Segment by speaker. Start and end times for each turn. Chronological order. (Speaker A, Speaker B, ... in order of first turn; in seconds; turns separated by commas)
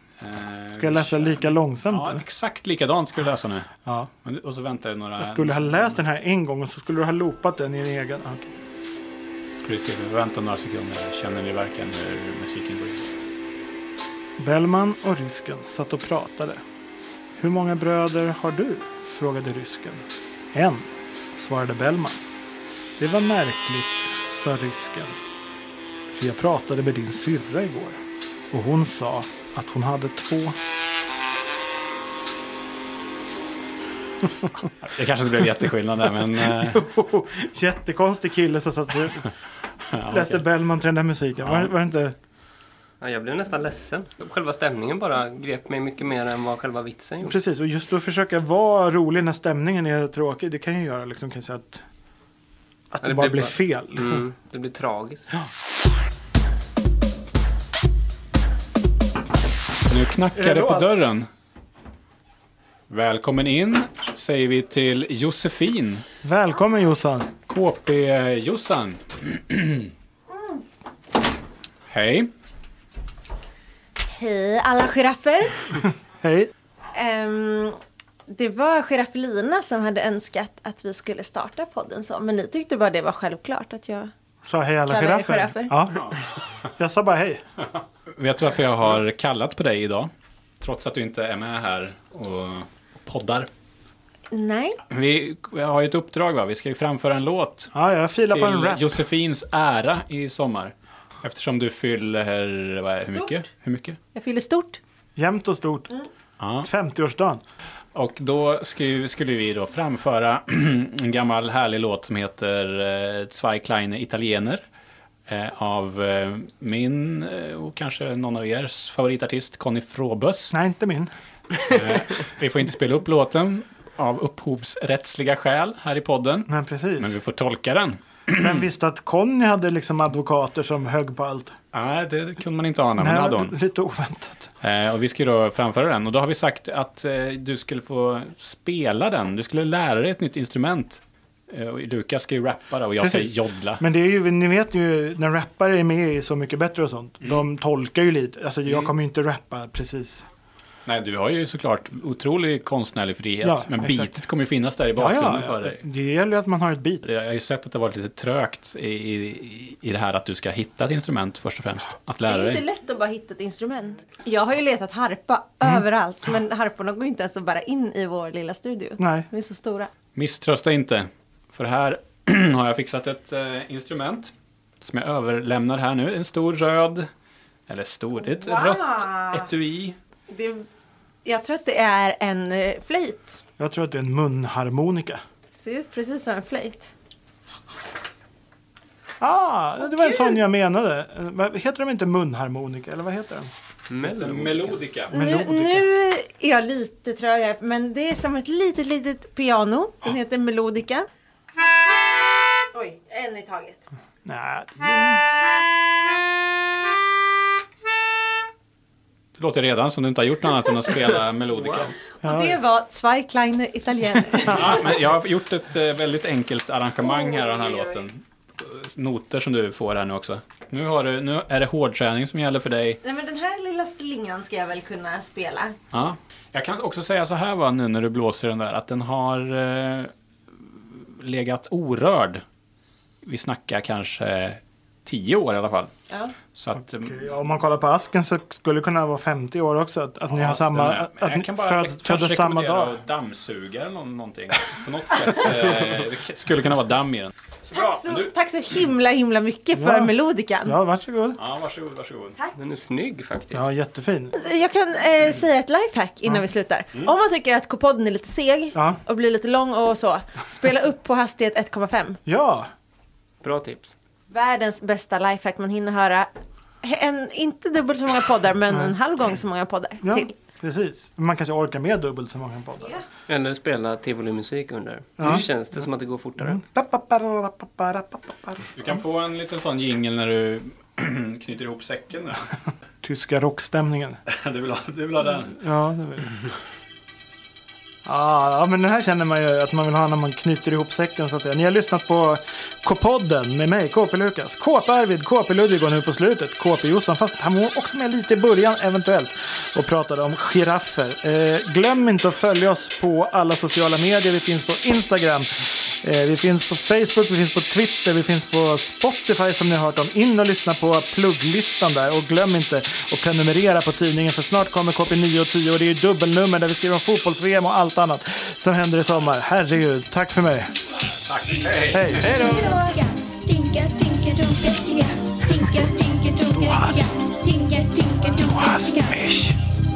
Speaker A: 0.2-3.7, Speaker B: 0.8-2.2, Speaker B: 3.8-4.1, Speaker A: 4.2-6.0, Speaker B: 5.2-8.5, Speaker A: 9.6-13.2, Speaker B: 14.4-16.6, Speaker B: 17.4-22.2, Speaker B: 23.0-25.1, Speaker B: 26.1-28.0, Speaker B: 28.5-30.6, Speaker A: 34.7-36.9, Speaker B: 36.2-39.3, Speaker A: 39.9-40.4, Speaker B: 40.1-42.1, Speaker A: 41.4-41.7, Speaker C: 43.0-47.4, Speaker B: 47.2-51.8, Speaker B: 52.9-54.2, Speaker C: 53.0-55.3, Speaker A: 59.9-61.3, Speaker B: 60.3-61.0, Speaker A: 62.9-66.0, Speaker B: 66.2-67.3, Speaker A: 67.4-69.9, Speaker A: 71.9-72.3, Speaker D: 74.1-75.6, Speaker B: 76.2-76.5, Speaker D: 76.9-77.8, Speaker D: 78.3-84.1, Speaker B: 84.5-86.0, Speaker D: 84.9-85.7, Speaker A: 86.0-86.3, Speaker B: 86.8-87.4, Speaker A: 88.1-93.5, Speaker D: 94.3-94.8, Speaker A: 94.9-97.7, Speaker B: 97.7-99.0, Speaker A: 98.3-104.0, Speaker D: 103.0-103.4, Speaker D: 104.1-104.8, Speaker B: 105.2-105.9, Speaker A: 106.4-106.7, Speaker B: 106.6-107.4, Speaker A: 107.9-114.6, Speaker A: 115.3-120.5, Speaker B: 120.5-121.1, Speaker A: 121.7-128.7, Speaker B: 126.5-127.2, Speaker B: 128.4-131.5, Speaker A: 131.7-133.6, Speaker B: 133.0-134.5, Speaker A: 134.6-143.8, Speaker B: 143.0-150.2, Speaker A: 148.7-148.9, Speaker A: 150.8-155.8, Speaker B: 153.4-154.2, Speaker B: 154.9-157.0, Speaker A: 157.0-162.6, Speaker D: 162.2-169.9, Speaker B: 169.0-169.3, Speaker A: 170.1-177.1, Speaker A: 177.7-180.0, Speaker D: 178.2-179.5, Speaker D: 180.3-180.6, Speaker D: 181.2-183.4, Speaker B: 183.6-185.2, Speaker D: 185.5-186.9, Speaker B: 189.2-193.5, Speaker C: 193.9-194.8, Speaker A: 194.0-195.1, Speaker B: 195.1-195.9, Speaker D: 195.1-201.1, Speaker D: 202.7-203.8, Speaker B: 204.2-205.2, Speaker A: 209.3-212.0, Speaker C: 211.6-211.9, Speaker D: 212.2-214.8, Speaker B: 212.2-212.6, Speaker A: 214.5-223.0, Speaker D: 217.1-217.8, Speaker D: 223.0-225.7, Speaker A: 225.9-232.4, Speaker A: 233.2-235.9, Speaker A: 236.5-237.3, Speaker B: 236.9-243.0, Speaker A: 240.3-248.3, Speaker D: 247.7-250.8, Speaker B: 249.7-251.4, Speaker A: 251.4-252.4, Speaker C: 252.6-253.7, Speaker B: 253.5-254.3, Speaker D: 254.3-262.2, Speaker B: 258.7-259.0, Speaker B: 262.2-262.7, Speaker C: 263.4-263.9, Speaker D: 264.3-266.3, Speaker D: 266.8-270.3, Speaker B: 268.7-268.9, Speaker B: 270.0-273.0, Speaker C: 273.3-276.6, Speaker B: 275.2-275.5, Speaker B: 276.4-279.0, Speaker A: 278.7-282.4, Speaker B: 283.0-284.2, Speaker A: 284.3-285.6, Speaker B: 285.5-286.3, Speaker B: 288.0-305.5, Speaker B: 306.0-320.7, Speaker A: 321.2-322.6, Speaker B: 321.9-322.3, Speaker D: 322.4-322.9, Speaker E: 322.5-329.3, Speaker A: 329.3-329.5